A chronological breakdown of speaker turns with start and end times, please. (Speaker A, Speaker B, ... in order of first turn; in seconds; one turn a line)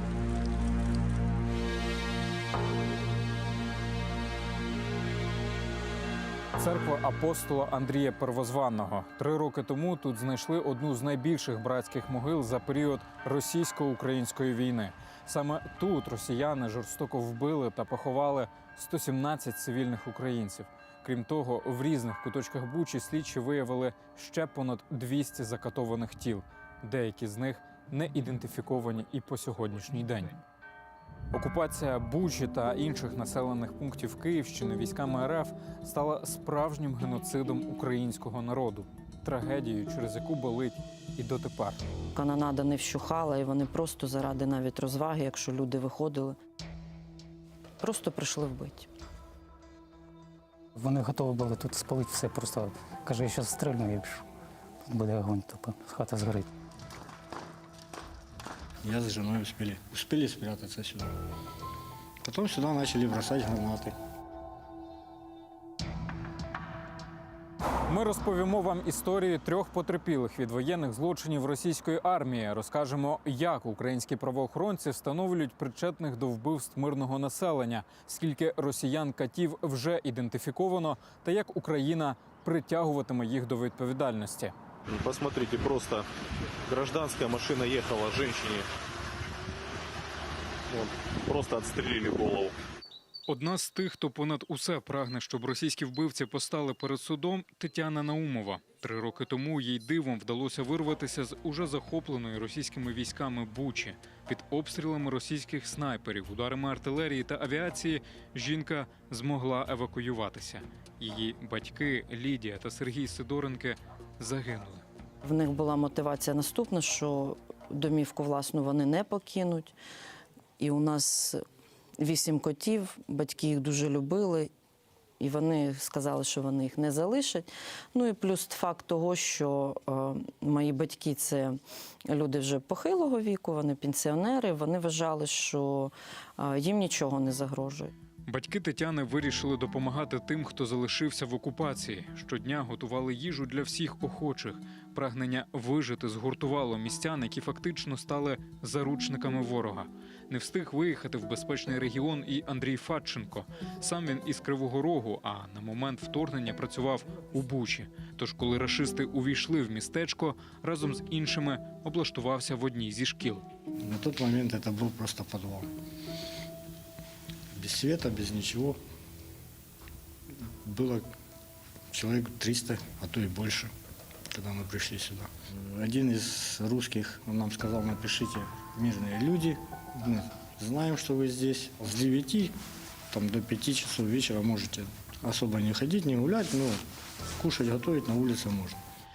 Speaker A: 6.6-30.4
Speaker A: 31.3-41.8
Speaker B: 42.1-46.4
Speaker B: 47.8-48.9
Speaker C: 50.8-54.2
Speaker C: 54.9-56.5
Speaker D: 58.8-61.1
Speaker D: 62.2-64.0
Speaker A: 67.9-84.5
Speaker E: 84.9-86.1
Speaker E: 86.7-88.7
Speaker E: 90.7-92.5
Speaker A: 93.3-114.8
Speaker B: 115.2-119.7
Speaker B: 120.6-121.4
Speaker B: 122.0-124.5
Speaker B: 125.2-137.9
Speaker A: 138.3-163.4
Speaker D: 163.8-165.7
Speaker D: 167.5-168.8
Speaker D: 170.6-171.1
Speaker D: 171.9-173.7
Speaker D: 174.3-182.5
Speaker D: 183.1-186.8
Speaker D: 187.4-188.8